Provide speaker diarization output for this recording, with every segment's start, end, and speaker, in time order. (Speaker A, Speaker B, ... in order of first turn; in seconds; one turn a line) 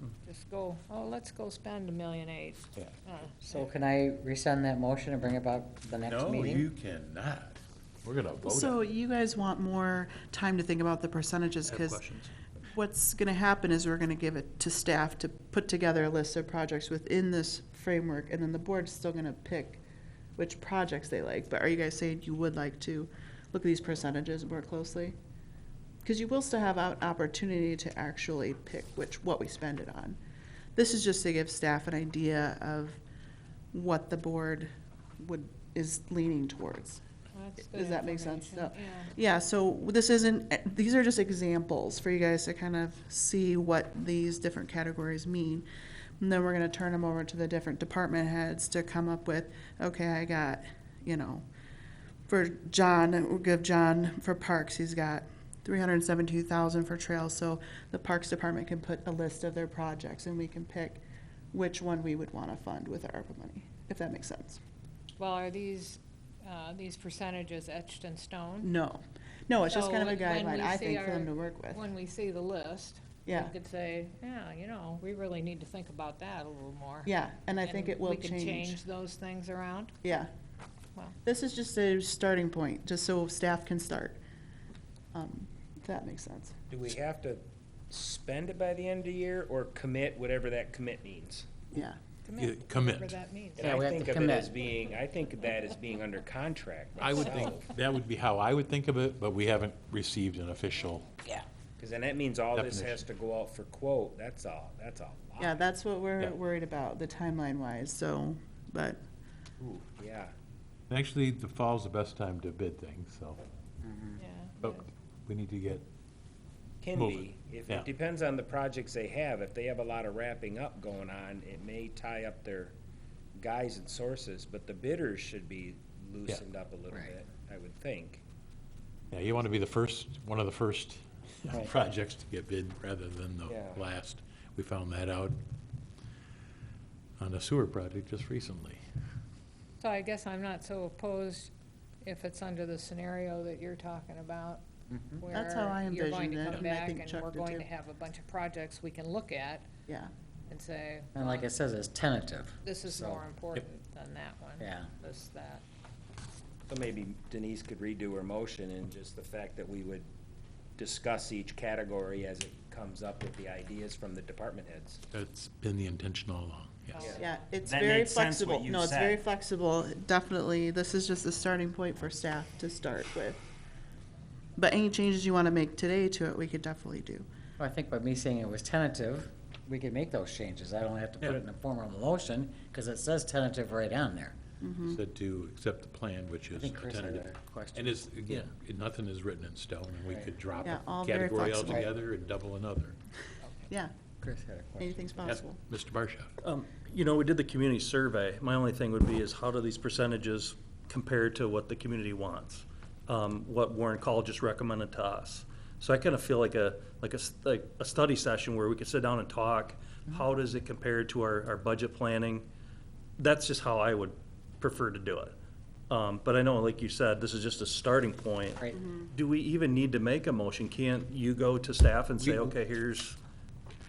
Speaker A: 0.2-3.6
Speaker B: 3.4-6.7
Speaker C: 6.0-8.8
Speaker D: 8.4-12.0
Speaker E: 11.7-12.2
Speaker D: 12.7-19.8
Speaker D: 20.4-25.1
Speaker D: 26.0-30.2
Speaker D: 30.8-33.0
Speaker D: 33.7-37.0
Speaker A: 37.3-39.1
Speaker D: 37.7-45.6
Speaker D: 46.2-51.5
Speaker D: 52.3-64.6
Speaker A: 65.2-68.7
Speaker D: 68.6-71.8
Speaker A: 69.6-80.0
Speaker D: 73.2-73.5
Speaker D: 77.0-78.8
Speaker D: 80.0-80.3
Speaker D: 81.2-84.2
Speaker D: 85.1-86.5
Speaker F: 86.7-91.5
Speaker D: 91.7-92.0
Speaker A: 92.2-93.8
Speaker C: 92.4-93.2
Speaker F: 93.6-97.7
Speaker B: 93.6-94.5
Speaker C: 97.0-101.3
Speaker F: 101.8-105.6
Speaker C: 102.5-103.0
Speaker D: 105.4-109.0
Speaker F: 109.6-110.3
Speaker C: 110.9-113.4
Speaker B: 113.8-114.2
Speaker A: 114.2-114.9
Speaker C: 114.6-115.8
Speaker F: 116.8-122.7
Speaker C: 116.9-117.9
Speaker F: 123.3-128.2
Speaker C: 129.1-135.4
Speaker F: 133.5-133.8
Speaker C: 137.2-138.8
Speaker A: 139.8-141.5
Speaker A: 142.0-144.6
Speaker B: 144.9-145.2
Speaker A: 145.2-149.7
Speaker D: 145.3-147.7
Speaker A: 150.5-151.5
Speaker B: 151.1-153.2
Speaker A: 152.6-155.6
Speaker B: 154.6-154.9
Speaker F: 156.7-160.1
Speaker F: 160.8-165.0
Speaker C: 165.1-167.1
Speaker A: 166.9-167.2
Speaker F: 166.9-169.2
Speaker D: 167.2-173.5
Speaker D: 174.6-177.2
Speaker B: 177.6-184.4
Speaker D: 184.6-185.0
Speaker C: 184.9-193.0
Speaker B: 186.5-188.1
Speaker B: 190.1-190.3
Speaker D: 190.6-191.9
Speaker D: 193.7-193.9
Speaker B: 194.2-195.0
Speaker D: 194.8-195.6
Speaker C: 195.2-196.3
Speaker E: 196.4-212.4
Speaker E: 213.2-215.3
Speaker E: 215.9-218.6
Speaker D: 218.7-219.1
Speaker E: 219.1-223.2
Speaker C: 222.2-222.6